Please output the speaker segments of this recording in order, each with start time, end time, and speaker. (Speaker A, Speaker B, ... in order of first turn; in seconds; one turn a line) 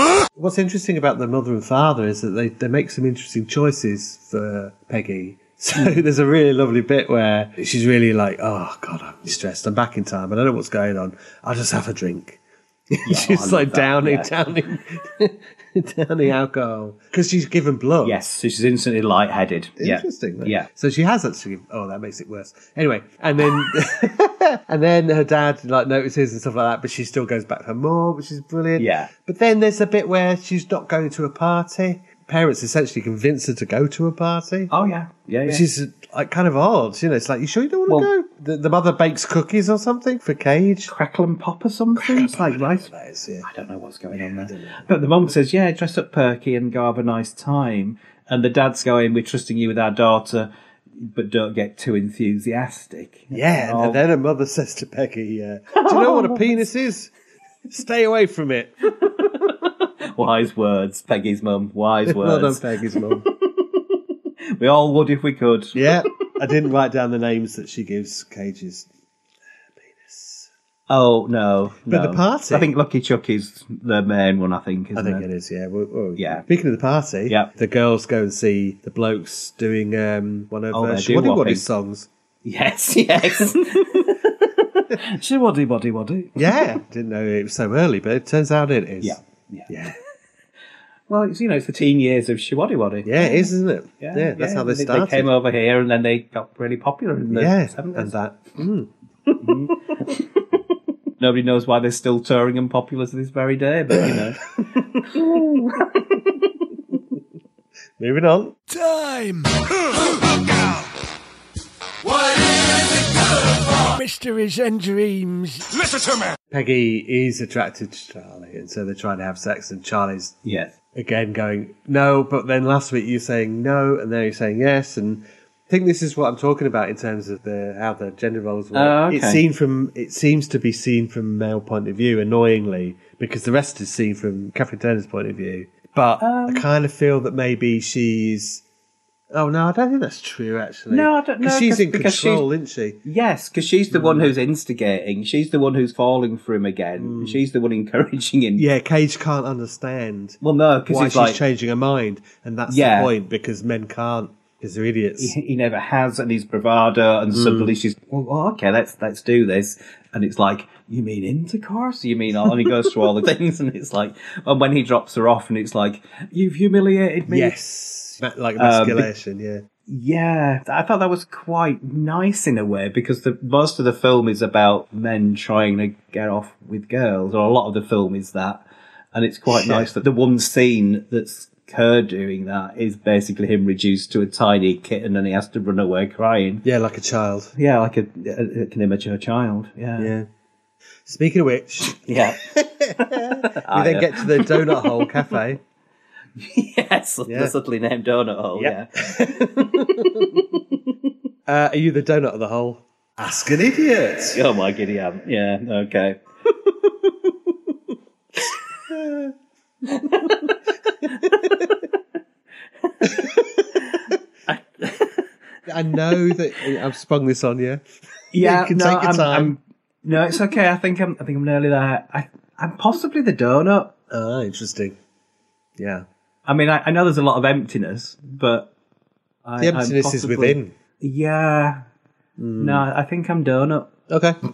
Speaker A: 0.3-12.4
Speaker A: 12.9-18.2
Speaker B: 13.0-14.5
Speaker B: 18.0-20.7
Speaker A: 19.8-34.7
Speaker B: 28.8-29.1
Speaker B: 34.7-35.6
Speaker A: 35.4-40.9
Speaker B: 40.9-42.9
Speaker A: 41.9-43.5
Speaker B: 43.4-54.0
Speaker A: 44.2-44.9
Speaker A: 53.3-57.1
Speaker B: 55.8-56.4
Speaker A: 57.7-59.3
Speaker B: 59.4-64.0
Speaker A: 62.0-63.3
Speaker B: 64.5-66.0
Speaker A: 65.7-68.9
Speaker A: 69.8-70.5
Speaker B: 70.9-75.3
Speaker A: 71.8-72.7
Speaker A: 74.9-82.1
Speaker B: 76.2-76.4
Speaker B: 80.7-81.7
Speaker B: 82.4-86.8
Speaker A: 86.3-90.0
Speaker B: 89.0-89.7
Speaker B: 91.1-98.1
Speaker A: 93.0-95.3
Speaker A: 97.3-99.7
Speaker B: 99.4-100.2
Speaker B: 101.2-104.4
Speaker B: 105.0-106.2
Speaker A: 108.0-108.6
Speaker C: 108.7-109.7
Speaker C: 113.8-115.8
Speaker A: 116.5-120.3
Speaker B: 120.4-120.7
Speaker A: 120.9-138.6
Speaker B: 128.7-129.4
Speaker B: 136.2-136.7
Speaker A: 139.3-143.0
Speaker B: 140.9-142.5
Speaker B: 143.0-148.7
Speaker A: 143.9-144.3
Speaker A: 147.0-147.4
Speaker A: 148.6-155.3
Speaker B: 150.4-151.4
Speaker B: 152.7-153.1
Speaker B: 155.2-167.5
Speaker A: 157.3-157.7
Speaker A: 167.3-169.6
Speaker B: 168.6-169.1
Speaker B: 169.9-186.6
Speaker A: 179.5-179.9
Speaker A: 186.6-187.5
Speaker B: 187.6-190.1
Speaker A: 190.0-190.3
Speaker A: 191.0-195.6
Speaker B: 192.1-195.1
Speaker B: 196.3-200.9
Speaker A: 197.3-197.5
Speaker A: 198.5-200.3
Speaker A: 201.5-204.4
Speaker B: 204.3-206.2
Speaker A: 208.9-209.3
Speaker B: 209.9-210.5
Speaker B: 211.0-211.5
Speaker A: 211.2-211.5
Speaker B: 213.0-213.3
Speaker A: 213.0-213.6
Speaker B: 214.5-215.2
Speaker A: 215.7-217.8
Speaker B: 216.1-216.3
Speaker B: 218.3-223.9
Speaker A: 218.4-219.6
Speaker A: 224.1-225.0
Speaker A: 225.8-226.0
Speaker B: 226.4-228.7
Speaker B: 229.4-231.8
Speaker A: 229.6-230.7
Speaker A: 232.4-232.8
Speaker B: 232.6-233.9
Speaker A: 234.1-234.4